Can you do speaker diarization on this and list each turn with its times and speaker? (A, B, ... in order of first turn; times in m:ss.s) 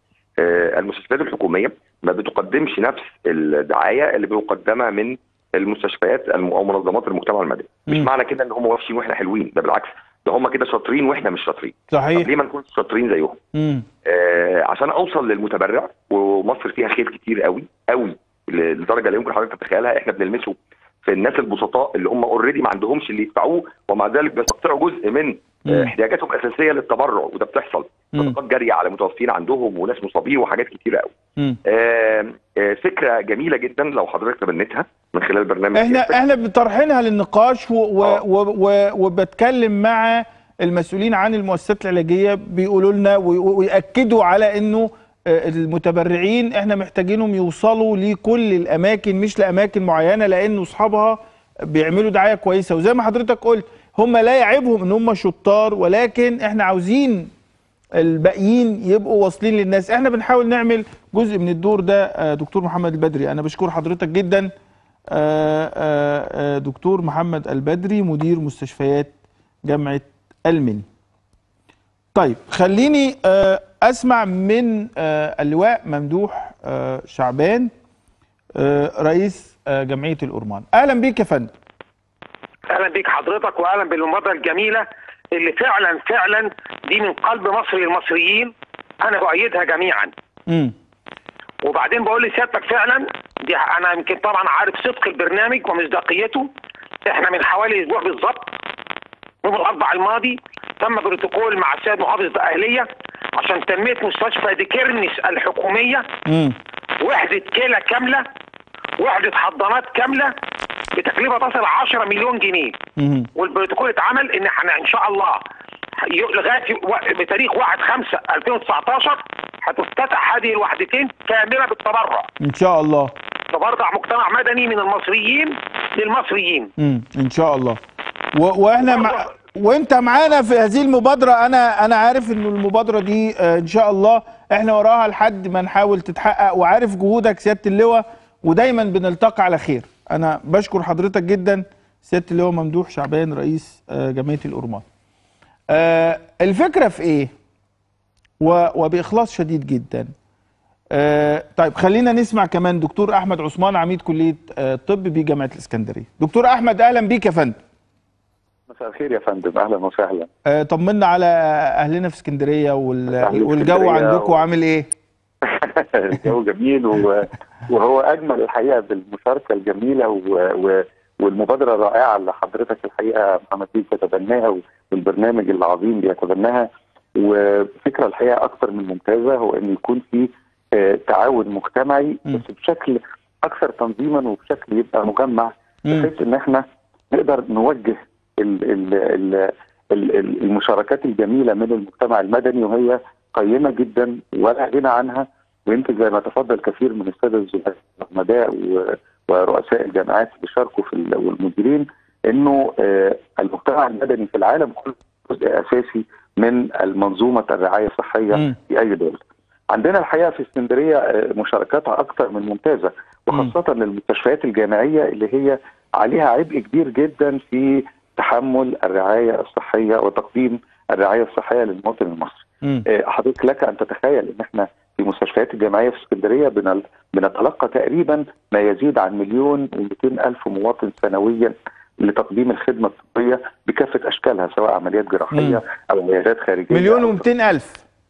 0:00.4-0:13.4 A
0:11.9-0:12.3 B
0:13.5-0:13.8 B
0:14.0-0:31.1 A
0:25.6-0:25.9 B
0:31.6-0:36.2 A
0:35.7-0:57.3 B
0:58.0-1:04.5 B
1:05.1-1:09.1 B
1:09.6-1:10.8 B
1:12.1-1:17.7 B
1:18.6-1:21.5 B
1:22.7-1:30.1 C
1:30.5-1:30.7 B
1:31.6-1:36.5 C
1:37.0-1:38.5 C
1:39.4-1:46.1 C
1:46.2-1:46.6 B
1:47.0-1:48.2 C
1:49.0-1:50.3 C
1:50.9-1:52.8 C
1:53.0-1:53.3 B
1:53.4-1:55.4 C
1:56.0-2:02.3 C
2:02.4-2:03.1 B
2:03.5-2:06.7 C
2:06.8-2:07.8 B
2:08.3-2:24.8 B
2:25.7-2:27.3 B
2:28.4-2:30.1 B
2:30.9-2:37.5 B
2:38.7-2:40.3 D
2:40.4-2:44.9 B
2:43.2-2:44.4 D
2:45.4-3:29.2 D
3:29.7-3:57.2 D
3:55.3-3:55.6 B
3:56.7-3:57.8 B